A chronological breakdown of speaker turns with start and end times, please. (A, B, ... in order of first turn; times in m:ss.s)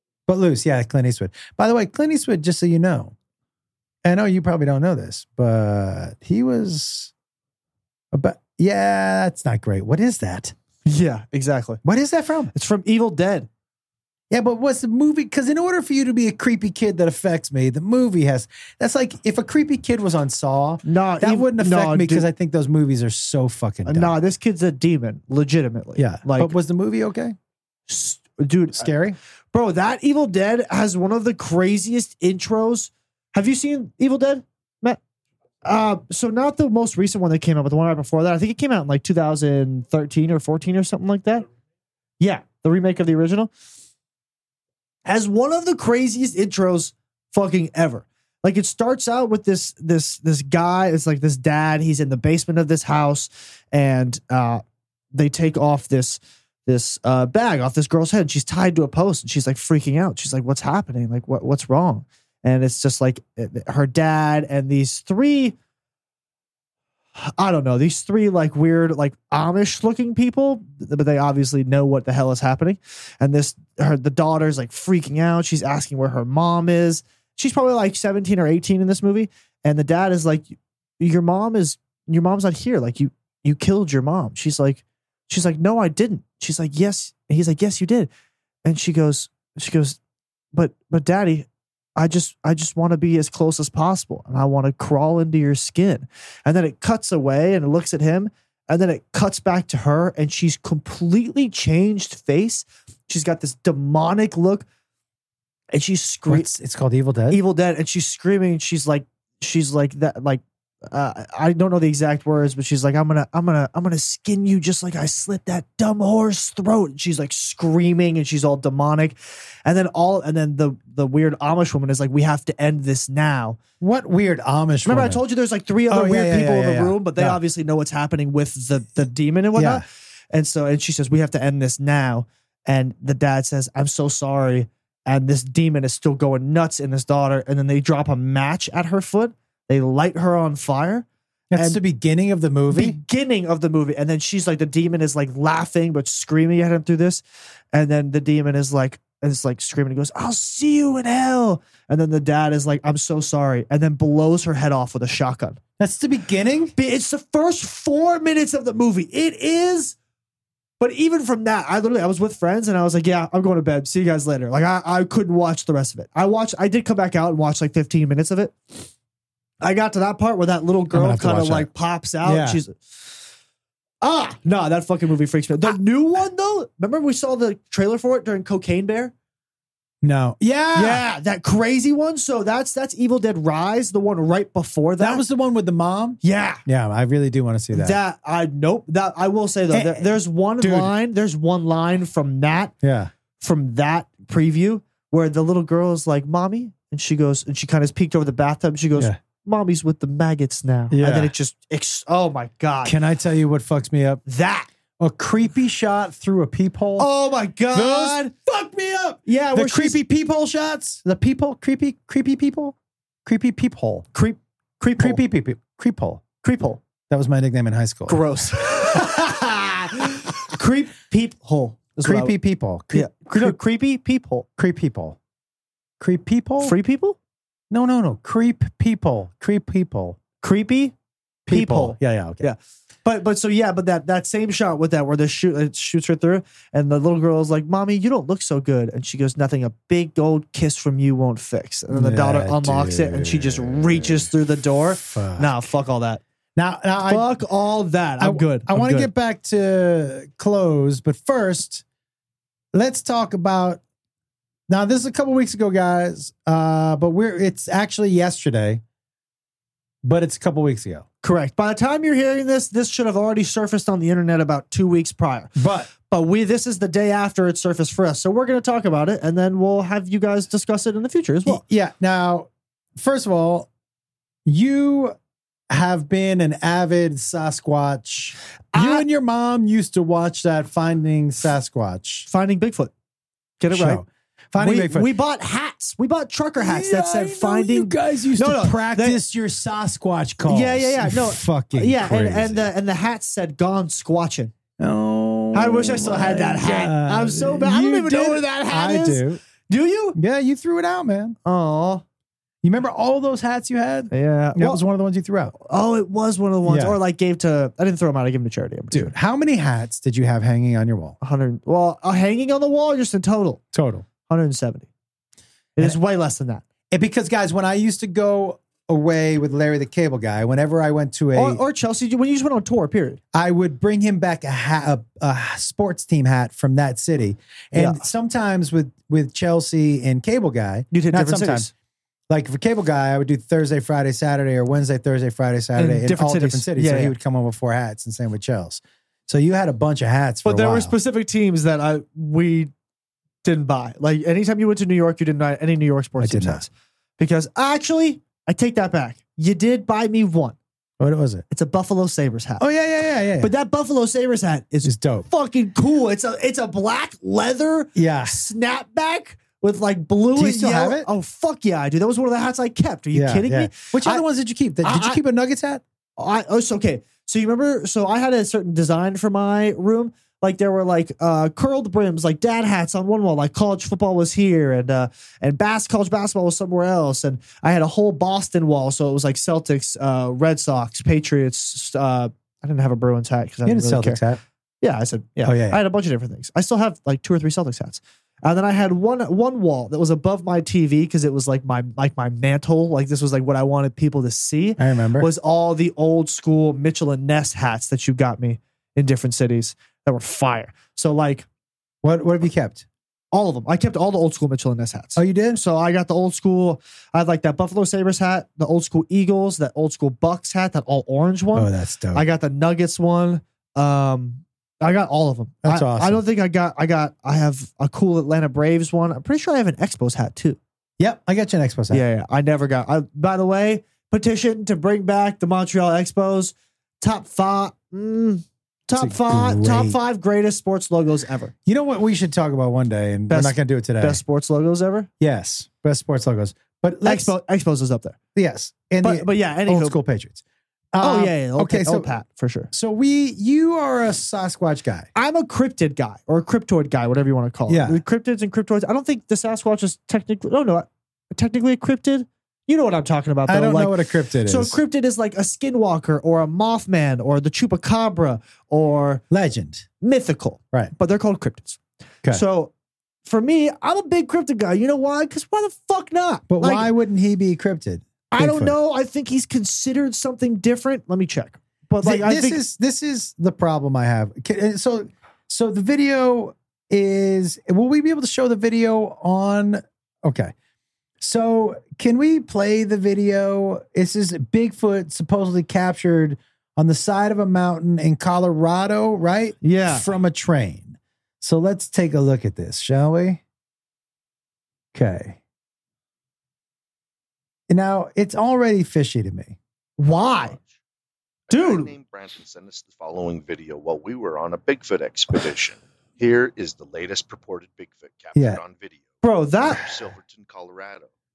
0:00.3-0:03.1 A
0:04.0-0:07.1 A
0:08.1-0:10.5 A
0:10.8-0:11.8 B
0:11.8-0:12.5 A
0:12.5-0:13.5 B
0:14.3-0:24.1 A
0:20.8-0:22.3 B
0:23.8-0:26.5 B
0:26.0-0:27.4 A
0:27.9-0:28.9 B
0:28.7-0:29.2 A
0:29.5-0:35.0 B
0:35.6-0:41.4 B
0:42.2-0:43.5 B
0:45.0-1:05.6 B
1:07.2-1:28.1 B
1:28.6-1:30.0 B
1:30.5-1:44.6 B
1:45.7-1:46.5 B
1:46.3-1:47.4 A
1:47.3-2:03.6 B
2:03.8-2:05.2 A
2:04.8-2:21.8 B
2:05.9-2:07.4 A
2:09.5-2:09.8 A
2:21.5-2:23.0 A
2:22.7-2:35.6 B
2:35.8-2:36.7 A
2:36.8-2:39.9 B
2:40.8-2:48.9 B
2:49.6-2:53.1 B
2:50.9-2:51.7 A
2:52.2-2:52.6 A
2:54.0-2:59.1 B
3:00.0-3:01.0 A
3:00.7-3:05.2 B
3:05.0-3:08.0 A
3:06.2-3:06.6 B
3:07.7-3:12.7 B
3:09.7-3:10.9 A
3:12.8-3:13.1 A
3:13.4-3:22.9 B
3:20.9-3:21.3 A
3:22.8-3:24.2 A
3:24.2-3:24.7 B
3:25.0-3:27.1 A
3:27.0-3:28.3 B
3:27.7-3:34.0 A
3:29.3-3:30.0 B
3:34.1-3:35.2 B
3:35.0-3:36.2 A
3:36.4-3:36.8 B
3:37.1-3:39.4 A
3:38.1-3:42.3 B
3:42.0-3:43.6 A
3:42.9-3:44.5 B
3:44.6-3:45.2 A
3:46.0-3:46.7 A
3:46.6-3:47.2 B
3:47.7-3:50.2 A
3:50.4-3:50.9 B
3:51.4-4:06.2 B
3:51.5-3:52.5 A
4:01.9-4:04.3 A
4:05.0-4:05.7 A
4:06.6-4:07.3 A
4:07.0-4:09.1 B
4:08.2-4:11.8 A
4:12.7-4:13.8 A
4:14.7-4:18.8 A
4:20.0-4:21.1 A
4:21.2-4:31.6 B
4:25.6-4:25.9 A
4:31.5-4:33.7 A
4:34.4-4:35.1 A
4:35.7-4:42.3 A
4:38.7-4:39.0 B
4:42.3-4:42.9 B
4:43.6-4:44.0 B
4:43.7-4:45.1 A
4:44.6-4:49.2 B
4:46.6-4:52.6 A
4:50.4-4:54.5 B
4:54.8-4:59.4 A
4:55.5-5:00.2 B
5:00.1-5:01.4 A
5:01.4-5:02.0 B
5:02.6-5:05.5 A
5:04.1-5:04.8 B
5:05.6-5:09.1 B
5:06.6-5:07.0 A
5:08.9-5:11.2 A
5:11.2-5:13.6 B
5:13.7-5:14.0 A
5:14.3-5:14.9 B
5:15.8-5:16.6 B
5:16.9-5:21.6 A
5:21.3-5:23.2 B
5:23.3-5:31.7 A
5:27.7-5:28.0 B
5:30.9-5:31.7 B
5:32.3-5:40.9 A
5:35.8-5:37.1 B
5:40.4-5:42.7 B
5:43.4-5:50.6 B
5:46.2-5:46.6 A
5:51.0-5:51.4 A
5:51.5-5:52.6 B
5:52.6-5:53.5 A
5:53.4-6:04.2 B
5:54.8-5:55.3 A
5:58.0-5:58.4 A
6:00.4-6:01.1 A
6:03.1-6:05.8 A
6:04.8-6:05.2 B
6:06.2-6:24.2 B
6:23.6-6:24.4 A
6:24.8-6:41.4 B
6:25.4-6:25.8 A
6:34.8-6:35.3 A
6:42.0-6:42.8 A
6:43.3-7:00.6 B
6:45.2-6:45.6 A
6:51.5-6:52.2 A
6:55.6-6:56.2 A
7:01.0-7:02.0 A
7:01.9-7:11.5 B
7:08.9-7:10.0 A
7:11.6-7:14.2 A
7:13.3-7:15.1 B
7:15.2-7:17.3 A
7:17.0-7:18.2 B
7:18.3-7:20.4 A
7:19.0-7:20.0 B
7:20.9-7:22.1 A
7:21.0-7:22.7 B
7:22.7-7:25.1 A
7:25.1-7:39.2 B
7:27.7-7:28.0 A
7:33.5-7:34.8 A
7:39.3-7:39.9 A
7:40.0-7:42.7 B
7:43.2-7:46.9 B
7:46.5-7:48.7 A
7:48.3-7:52.6 B
7:52.0-8:00.5 A
8:01.2-8:13.4 A
8:09.6-8:10.0 B
8:14.9-8:15.4 A
8:17.7-8:19.6 A
8:20.0-8:20.6 B
8:21.5-8:31.1 C
8:21.5-8:21.9 B
8:28.3-8:28.6 A
8:29.2-8:29.8 B